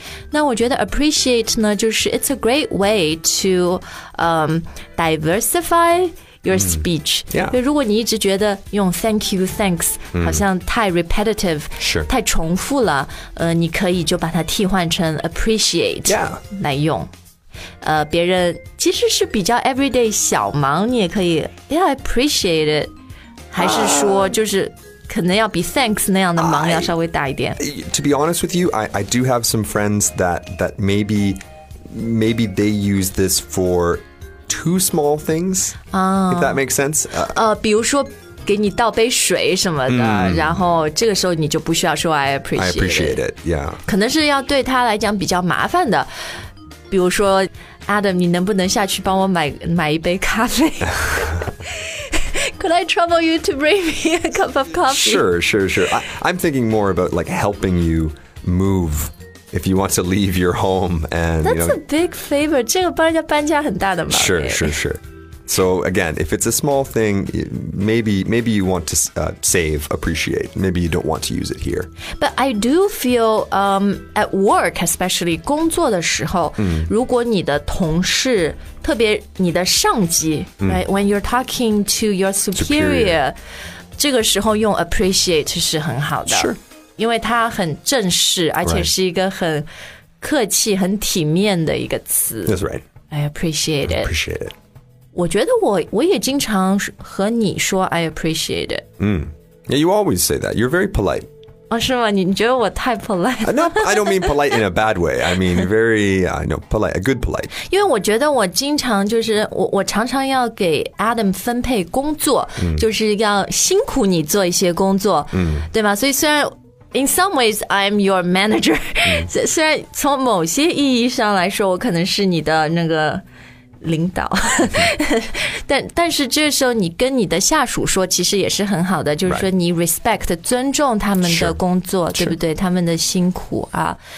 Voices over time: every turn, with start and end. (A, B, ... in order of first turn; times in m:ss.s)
0:00.3-0:17.1 A
0:06.5-0:07.6 B
0:10.1-0:10.4 B
0:11.8-0:12.1 B
0:16.1-0:16.4 B
0:17.8-0:22.9 A
0:23.5-0:27.6 A
0:23.6-0:24.4 B
0:26.4-0:26.9 B
0:27.6-0:35.8 B
0:35.9-0:36.6 A
0:36.3-0:37.4 B
0:37.2-0:43.2 A
0:39.9-0:40.6 B
0:42.6-0:43.8 B
0:43.8-0:46.1 A
0:46.9-0:55.3 A
0:50.9-0:51.5 B
0:54.9-1:01.8 B
1:01.4-1:04.8 A
1:04.1-1:11.9 B
1:12.2-1:23.4 A
1:16.6-1:16.9 B
1:22.6-1:23.2 B
1:24.0-1:29.7 A
1:26.3-1:26.6 B
1:28.6-1:28.9 B
1:30.2-1:32.6 A
1:32.5-1:32.8 B
1:33.1-1:34.1 A
1:33.9-1:34.5 B
1:35.2-1:38.9 A
1:39.0-1:41.3 B
1:41.7-1:44.6 A
1:43.4-1:47.5 B
1:47.6-2:03.2 A
1:52.6-1:52.8 B
1:55.3-1:55.7 B
1:59.0-1:59.3 B
2:03.8-2:14.0 A
2:11.2-2:11.6 B